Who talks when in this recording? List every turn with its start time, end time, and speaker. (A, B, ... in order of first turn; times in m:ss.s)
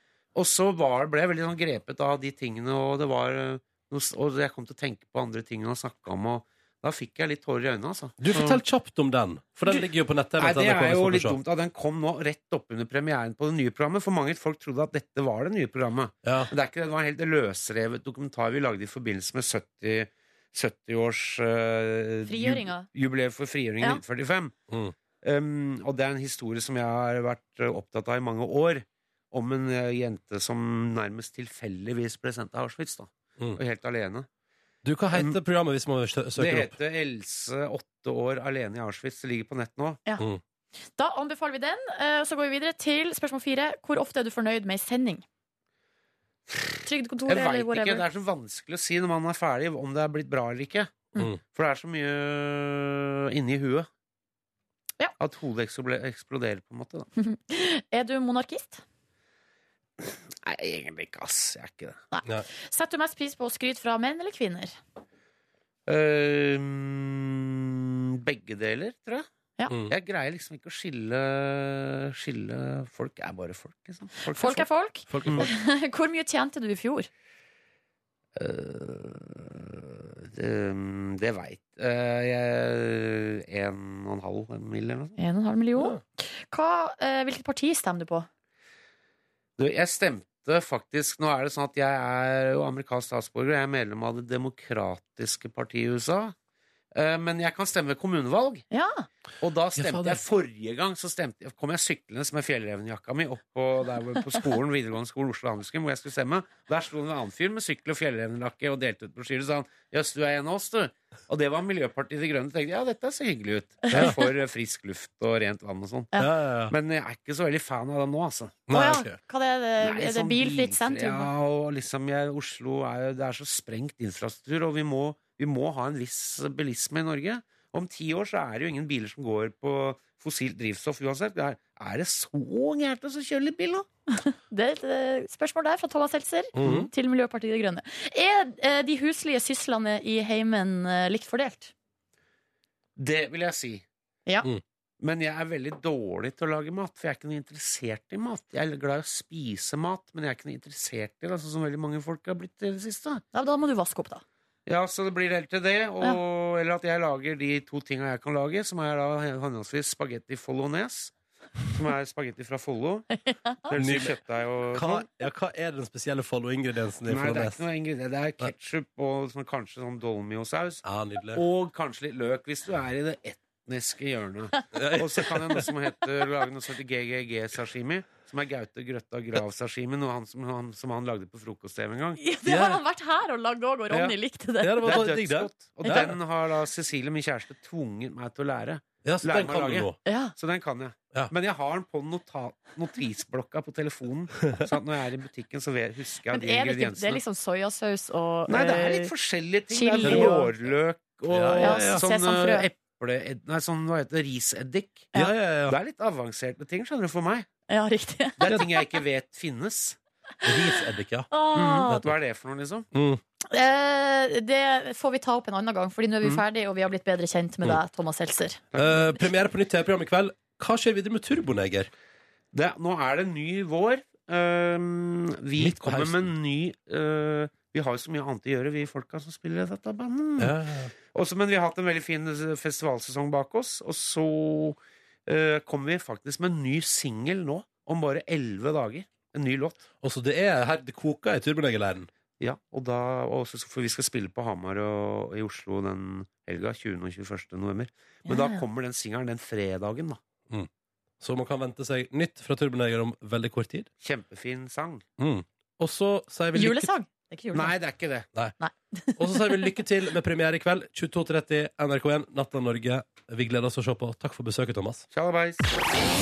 0:00.4-0:08.6 A
0:08.2-0:11.4 B
0:10.4-0:24.5 A
0:16.2-0:16.5 B
0:22.2-0:22.9 C
0:24.7-0:25.0 B
0:25.2-0:34.3 A
0:34.8-0:36.8 B
0:35.1-0:35.4 A
0:36.4-0:40.0 A
0:41.0-0:45.2 C
0:46.5-0:53.9 A
0:46.8-0:48.0 C
0:55.2-0:57.1 A
0:57.2-0:58.8 C
1:00.0-1:02.0 A
1:02.1-1:04.8 C
1:05.9-1:09.3 A
1:09.9-1:14.7 A
1:14.3-1:17.1 C
1:15.1-1:15.5 B
1:18.4-1:25.2 A
1:25.2-1:28.3 C
1:29.6-1:36.4 A
1:36.9-1:38.6 A
1:38.7-1:39.1 C
1:39.4-1:56.1 A
1:39.8-1:40.2 B
1:53.9-1:54.2 C
1:56.2-1:56.7 B
1:56.7-1:58.7 A
1:58.7-1:59.2 B
1:58.7-2:01.3 C
1:59.8-2:13.9 A
2:14.1-2:21.7 C
2:16.6-2:16.9 B
2:23.0-2:23.8 A
2:25.0-2:33.2 A
2:33.3-2:34.2 C
2:34.7-2:41.1 A
2:41.7-2:43.1 A
2:43.1-2:43.8 C
2:43.7-2:45.1 A
2:43.8-2:44.2 B
2:44.7-2:47.6 B
2:47.1-2:50.8 A
2:50.8-2:51.4 B
2:51.3-3:02.2 A
2:54.7-2:55.6 B
3:02.2-3:05.1 C
3:02.4-3:02.8 B
3:04.6-3:06.2 B
3:04.8-3:17.2 A
3:05.8-3:06.1 C
3:09.0-3:10.0 B
3:10.0-3:10.3 C
3:16.3-3:19.1 C
3:18.5-3:25.1 A
3:19.7-3:20.6 C
3:20.0-3:20.4 B
3:21.3-3:22.0 B
3:21.6-3:22.7 C
3:25.1-3:25.8 B
3:25.7-3:27.5 A
3:27.7-3:28.8 C
3:28.4-3:30.0 A
3:30.4-3:32.2 B
3:31.3-3:32.0 C
3:31.6-3:32.9 A
3:32.9-3:33.2 B
3:33.5-3:38.6 C
3:38.7-3:39.0 A
3:38.8-3:41.9 B
3:42.5-3:50.6 A
3:45.6-3:46.3 B
3:50.4-3:50.9 B
3:51.1-3:59.8 A
4:00.0-4:02.1 B
4:02.4-4:10.2 A
4:08.3-4:08.6 C
4:11.2-4:13.9 B
4:14.0-4:15.0 A
4:15.2-4:16.9 B
4:16.6-4:17.8 C
4:17.5-4:18.3 A
4:18.6-4:19.8 C
4:19.2-4:25.0 B
4:25.1-4:25.7 A